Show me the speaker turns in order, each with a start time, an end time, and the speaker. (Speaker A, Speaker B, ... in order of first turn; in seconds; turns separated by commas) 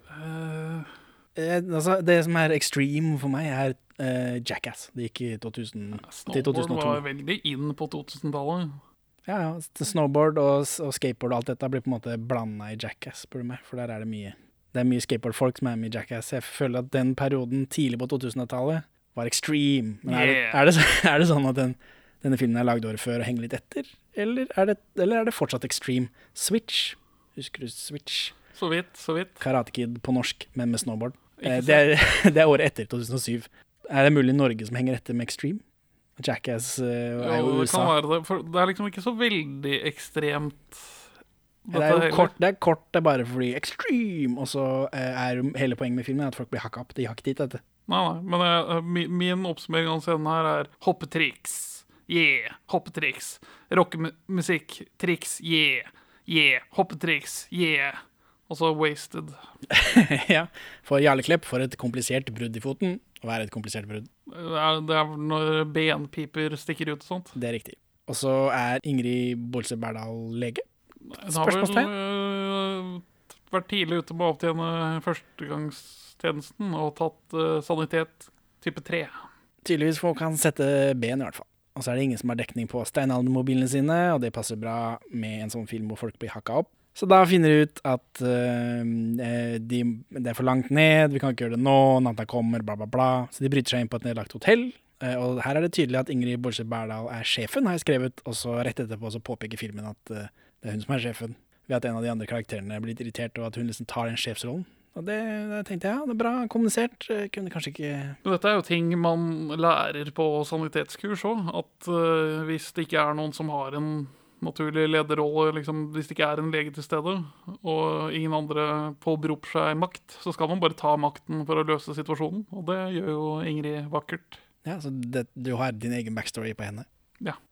Speaker A: 0.1-0.9, Speaker B: 1.4-7.0, Speaker A: 6.0-8.8, Speaker B: 9.3-28.4, Speaker A: 20.1-20.6, Speaker A: 28.5-29.4, Speaker B: 29.4-35.6, Speaker A: 31.4-31.9, Speaker B: 36.2-38.0, Speaker A: 37.2-41.0, Speaker A: 41.7-42.3, Speaker B: 41.7-47.6, Speaker A: 47.9-59.4, Speaker B: 59.7-64.1, Speaker A: 64.3-67.3, Speaker B: 67.3-70.7, Speaker A: 71.1-79.2, Speaker B: 71.2-71.9, Speaker B: 79.6-108.2, Speaker A: 108.2-124.4, Speaker B: 124.6-126.9